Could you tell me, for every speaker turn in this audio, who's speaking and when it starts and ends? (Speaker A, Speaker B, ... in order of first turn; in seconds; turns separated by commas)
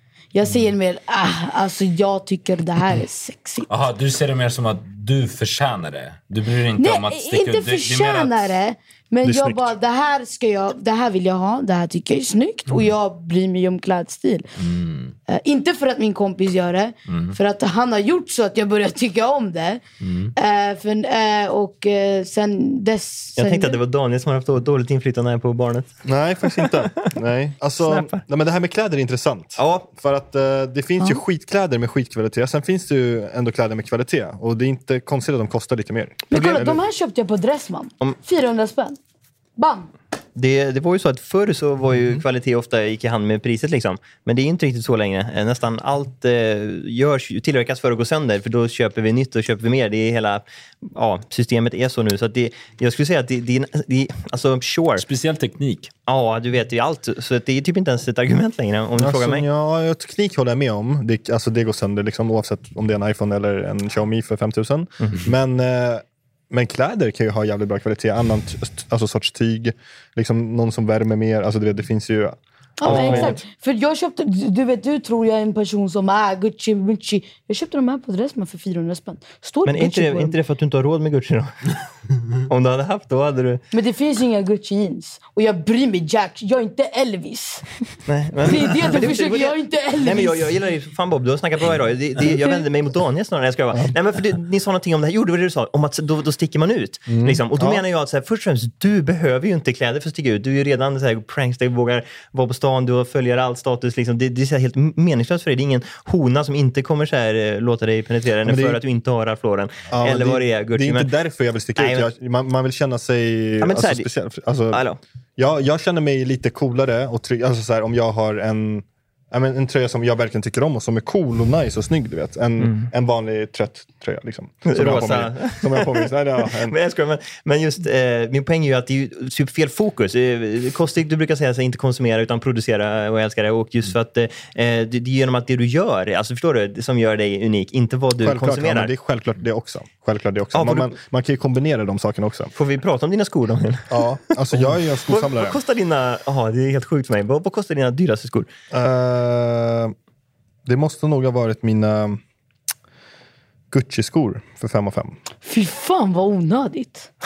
Speaker A: 0.3-3.7, Speaker B: 0.4-0.7, Speaker B: 3.7-8.5, Speaker A: 6.8-14.5, Speaker C: 9.2-9.7, Speaker B: 14.6-15.1, Speaker A: 15.3-19.8, Speaker B: 17.1-17.4, Speaker B: 20.0-20.3, Speaker A: 20.4-23.8, Speaker D: 23.4-25.9, Speaker C: 26.0-36.8, Speaker D: 26.5-26.9, Speaker D: 27.8-28.2, Speaker D: 29.6-29.9, Speaker A: 36.3-39.0, Speaker D: 36.3-36.7, Speaker A: 39.6-39.9, Speaker D: 40.4-55.0, Speaker B: 55.0-55.9, Speaker D: 56.1-59.4, Speaker C: 59.0-73.4, Speaker A: 72.8-80.3, Speaker D: 72.8-73.4, Speaker D: 79.6-81.5, Speaker D: 82.5-83.6, Speaker A: 83.7-87.6, Speaker D: 88.1-111.1, Speaker A: 88.4-90.5, Speaker C: 97.1-97.8, Speaker C: 108.4-108.8, Speaker C: 109.9-114.8, Speaker D: 111.8-112.1, Speaker D: 113.6-114.1, Speaker D: 114.7-115.0, Speaker C: 115.4-126.7, Speaker D: 122.6-122.8, Speaker D: 124.7-138.9, Speaker C: 138.2-142.5, Speaker D: 140.5-140.9, Speaker D: 142.5-148.5, Speaker C: 143.9-145.6, Speaker C: 148.7-149.9, Speaker C: 150.7-152.2, Speaker C: 153.7-155.2, Speaker A: 155.4-157.1